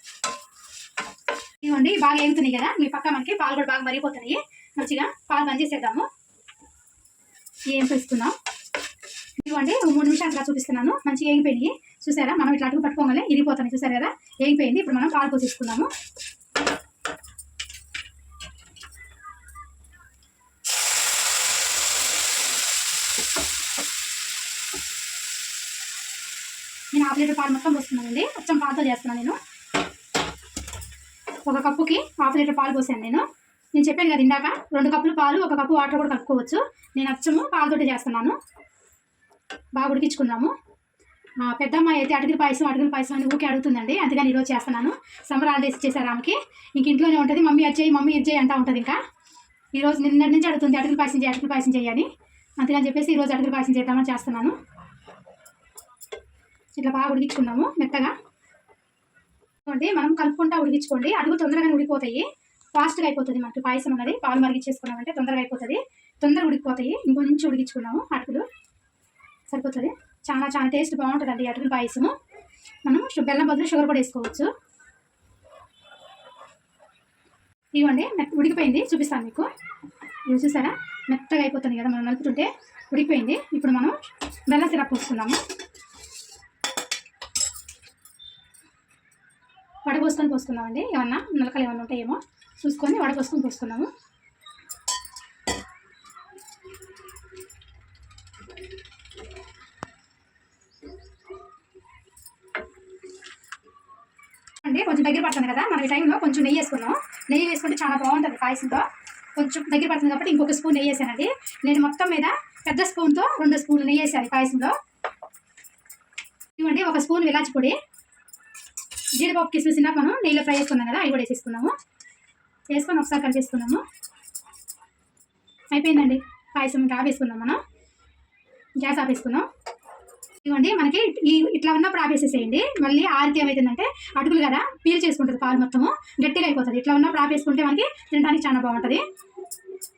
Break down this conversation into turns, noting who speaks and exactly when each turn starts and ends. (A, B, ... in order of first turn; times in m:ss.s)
0:01.6-0:06.1 A
0:07.7-0:08.3 A
0:09.4-0:15.9 A
0:26.9-0:29.4 A
0:31.5-0:38.4 A
0:39.7-0:40.5 A
0:41.4-0:49.0 A
0:49.7-0:52.1 A
0:52.6-0:54.6 A
0:56.8-0:58.1 A
0:59.6-1:08.4 A
1:09.5-1:12.1 A
1:12.8-1:14.5 A
1:17.7-1:19.5 A
1:20.3-1:24.0 A
1:24.5-1:25.4 A
1:29.8-1:33.9 A
1:44.6-1:54.7 A
1:56.6-1:57.8 A
1:59.2-2:01.7 A
2:02.7-2:03.8 A
2:05.7-2:07.6 A
2:08.8-2:09.5 A
2:10.4-2:19.0 A